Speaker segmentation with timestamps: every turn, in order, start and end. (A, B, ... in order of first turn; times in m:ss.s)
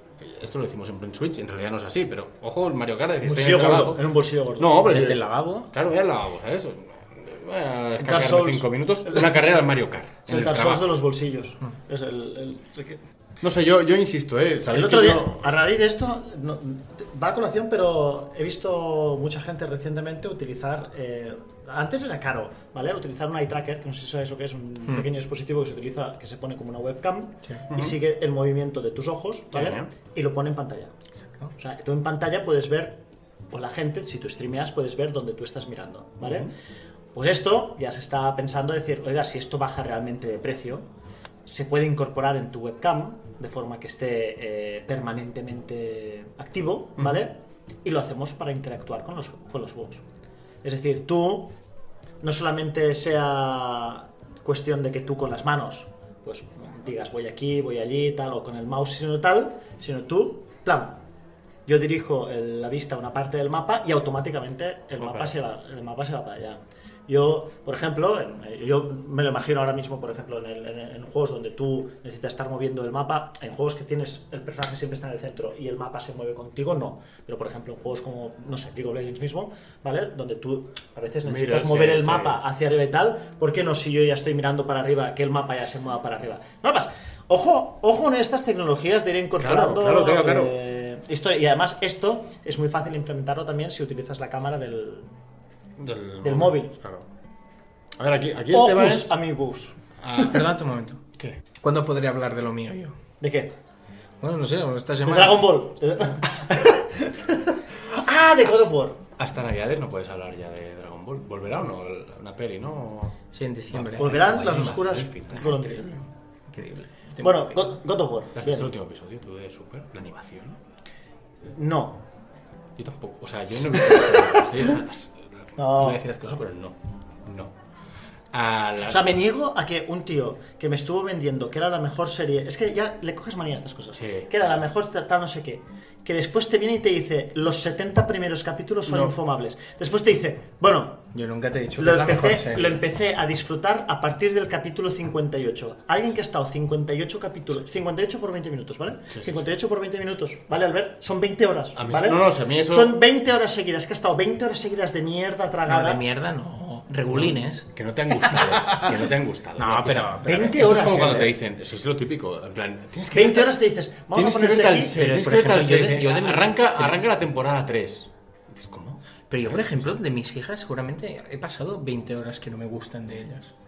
0:00.2-0:10.9 A
0:03.2-0:05.1 B
0:04.8-0:05.7 C
0:08.0-0:09.5 B
0:10.3-0:13.0 B
0:13.4-0:15.4 A
0:14.7-0:30.9 B
0:27.7-0:28.0 A
0:29.5-0:29.9 A
0:31.2-0:31.5 C
0:31.6-0:36.5 B
0:36.2-0:36.5 A
0:37.1-0:40.9 B
0:41.4-0:50.0 B
0:50.6-0:51.5 B
0:52.2-1:01.0 B
1:01.6-1:35.1 B
1:05.0-1:05.3 A
1:21.2-1:22.4 A
1:29.4-1:30.5 A
1:35.8-1:37.1 A
1:36.2-1:36.7 B
1:38.0-1:39.1 A
1:38.5-1:40.3 B
1:40.0-1:40.4 A
1:40.2-1:41.0 C
1:41.6-1:43.0 C
1:43.2-1:43.5 B
1:44.2-1:45.5 C
1:45.0-1:49.0 B
1:49.2-1:53.2 A
1:53.3-1:54.3 C
1:53.7-1:55.6 A
1:54.0-1:56.0 B
1:55.4-1:56.0 C
1:56.5-1:57.8 C
1:57.2-1:58.7 B
1:58.4-2:00.6 A
2:01.4-2:02.0 B
2:02.8-2:07.5 A
2:05.6-2:06.0 B
2:08.3-2:09.1 A
2:08.9-2:21.0 B
2:13.9-2:14.3 A
2:21.1-2:22.8 C
2:21.8-2:36.0 B
2:29.1-2:29.4 A
2:31.8-2:32.9 A
2:35.7-2:37.6 C
2:37.1-2:43.5 A
2:38.2-2:41.1 C
2:40.2-2:41.3 B
2:43.1-2:44.9 B
2:44.1-2:49.9 A
2:44.9-2:47.0 C
2:49.3-2:53.5 C